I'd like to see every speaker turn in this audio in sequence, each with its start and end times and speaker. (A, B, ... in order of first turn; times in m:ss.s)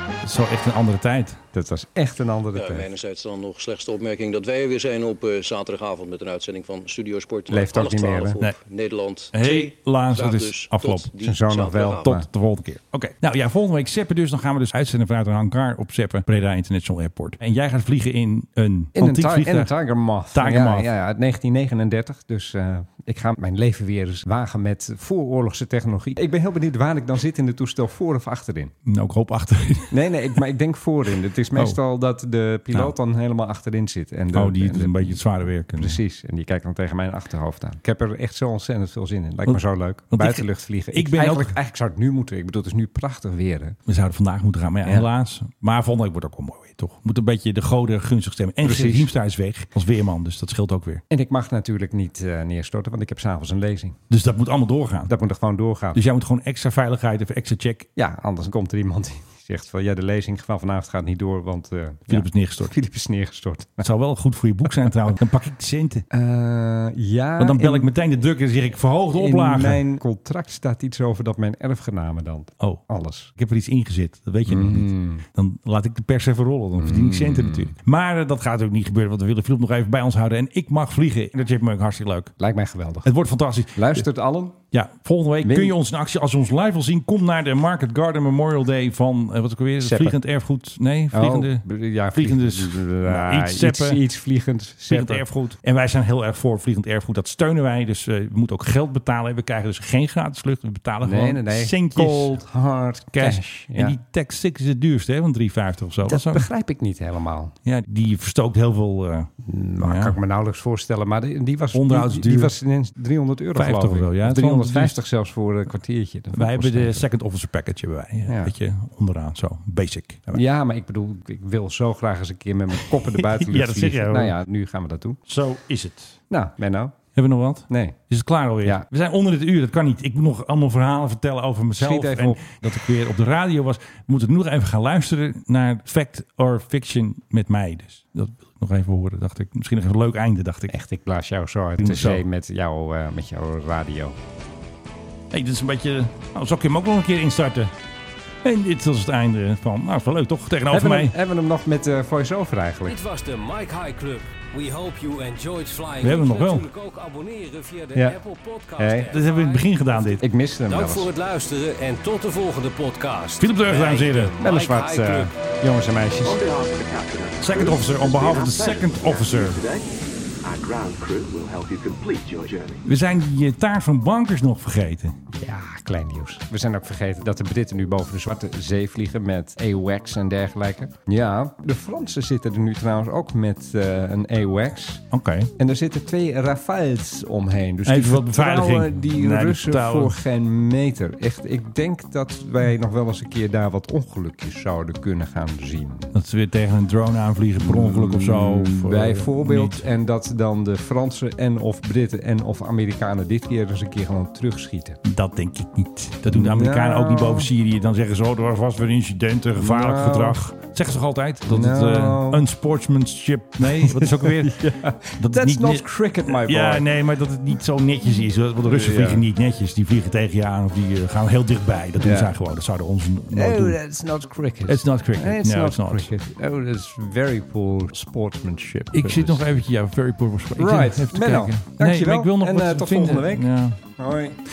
0:00.2-0:01.4 A
0:01.5-0:02.9 B
0:02.5-0:12.1 C
0:07.5-0:08.4 B
0:09.3-0:11.1 A
0:11.2-0:12.3 B
0:12.0-0:19.7 A
0:19.0-0:28.7 B
0:20.3-0:20.9 A
0:28.9-0:30.0 A
0:29.9-0:43.8 B
0:34.3-0:36.0 A
0:39.5-0:41.6 A
0:43.9-0:51.0 A
0:48.6-0:49.1 B
0:51.1-0:54.0 B
0:54.1-0:55.1 A
0:55.1-0:56.0 B
0:55.9-0:57.9 A
0:58.0-1:03.9 B
1:02.1-1:02.8 A
1:03.8-1:06.0 A
1:06.1-1:07.9 B
1:07.4-1:09.8 A
1:09.1-1:13.3 B
1:13.4-1:22.3 A
1:14.5-1:15.2 B
1:16.8-1:17.7 B
1:22.4-1:23.1 B
1:23.0-1:24.1 A
1:23.8-1:24.6 B
1:24.7-1:34.0 A
1:25.4-1:25.8 B
1:29.8-1:30.2 B
1:31.1-1:35.3 B
1:34.9-1:42.4 A
1:41.0-1:44.0 B
1:43.2-1:46.5 A
1:46.1-1:47.5 B
1:47.6-1:50.2 A
1:49.4-1:57.1 B
1:51.7-1:52.6 A
1:53.6-1:55.0 A
1:56.3-2:00.4 A
1:58.3-1:58.5 B
2:00.3-2:05.2 B
2:02.8-2:04.4 A
2:05.3-2:06.2 A
2:06.3-2:07.0 B
2:07.2-2:20.7 A
2:07.7-2:08.0 B
2:11.8-2:12.5 B
2:20.7-2:24.2 B
2:21.8-2:22.2 A
2:25.3-2:27.7 A
2:28.4-2:31.2 A
2:30.7-2:33.0 B
2:32.8-2:45.3 D
2:36.0-2:36.7 A
2:38.8-2:39.1 B
2:39.1-2:40.2 A
2:40.2-2:41.1 B
2:43.4-2:44.3 A
2:44.4-2:46.4 B
2:46.2-2:49.9 E
2:47.4-2:49.6 A
2:50.4-2:52.9 E
2:52.9-2:55.2 A
2:55.4-3:05.0 B
3:05.1-3:05.5 A
3:05.6-3:16.1 B
3:07.9-3:10.2 A
3:16.1-3:19.8 A
3:17.6-3:25.0 B
3:25.0-3:43.8 A
3:26.3-3:27.5 B
3:29.6-3:30.4 B
3:31.5-3:32.5 B
3:33.6-3:36.9 B
3:38.6-3:39.2 B
3:42.0-3:42.3 B
3:43.3-3:49.6 B
3:44.7-3:46.1 A
3:48.9-3:53.8 A
3:50.6-3:53.4 B
3:54.0-3:54.4 B